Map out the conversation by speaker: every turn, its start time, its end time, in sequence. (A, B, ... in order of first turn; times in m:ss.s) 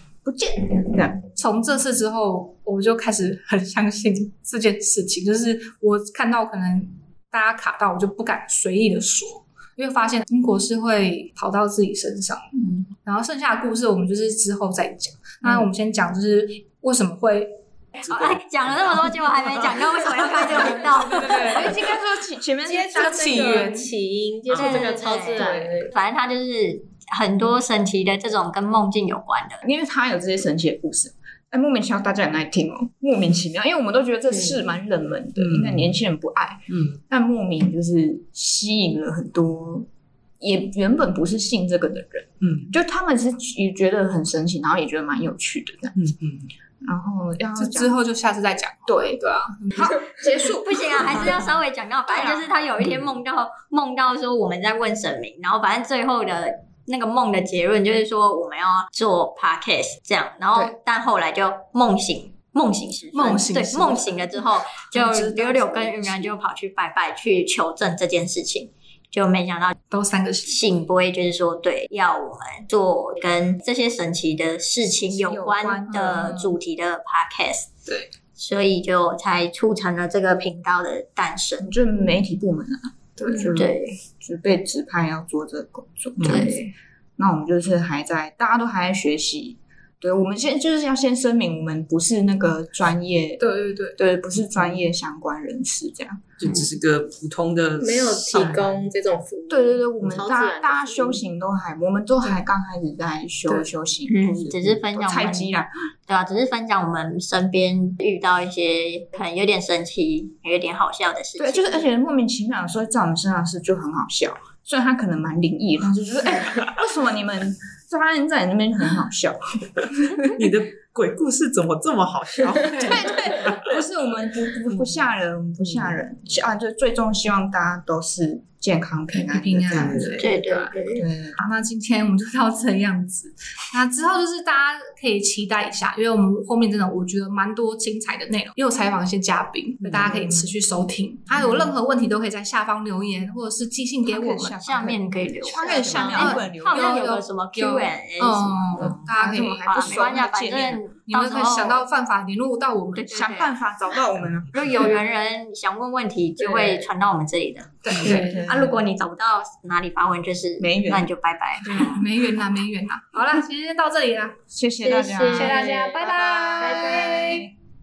0:00.2-0:01.2 A
0:01.4-0:12.4 B
0:12.6-0:12.8 A
0:13.0-0:17.5 B
0:18.0-0:21.7 C
0:20.3-0:23.7 A
0:20.5-0:21.9 B
0:22.6-0:25.9 D
0:22.9-0:23.9 B
0:24.5-0:29.6 C
0:29.6-0:39.9 A
0:35.4-0:35.8 E
0:36.7-0:37.0 E
0:40.4-0:46.0 A
0:42.4-0:42.7 E
0:46.0-0:46.5 E
0:46.8-0:48.0 A
0:47.5-0:50.4 B
0:48.9-0:49.2 A
0:49.7-0:51.5 A
0:50.6-1:09.7 C
0:52.1-0:52.6 A
1:03.1-1:04.1 B
1:05.0-1:06.2 A
1:05.2-1:05.6 B
1:09.9-1:10.8 B
1:10.4-1:17.7 C
1:14.8-1:16.5 A
1:15.9-1:16.5 B
1:18.4-1:21.7 C
1:21.6-1:33.4 A
1:23.2-1:23.5 B
1:23.5-1:24.0 C
1:26.2-1:26.5 E
1:26.3-1:26.5 C
1:33.4-1:34.0 B
1:34.0-1:36.3 A
1:36.4-1:38.8 E
1:37.8-1:41.2 D
1:39.5-1:45.7 A
1:44.1-1:45.5 C
1:46.1-1:51.9 C
1:51.4-2:00.3 A
2:00.3-2:03.7 E
2:02.9-2:11.4 A
2:02.9-2:03.5 B
2:09.1-2:10.7 B
2:10.2-2:11.0 C
2:11.4-2:24.6 B
2:19.9-2:20.2 E
2:24.0-2:27.1 A
2:24.6-2:28.9 C
2:25.6-2:29.7 B
2:28.8-2:30.8 A
2:29.6-2:31.8 C
2:31.1-2:33.3 B
2:32.9-2:33.6 C
2:33.1-2:35.0 A
2:34.5-2:42.0 C
2:37.8-2:38.4 B
2:37.9-2:38.8 A
2:40.6-2:41.1 A
2:41.6-2:44.4 B
2:44.5-2:47.5 A
2:45.0-2:46.0 D
2:45.1-2:47.4 B
2:46.6-2:47.4 D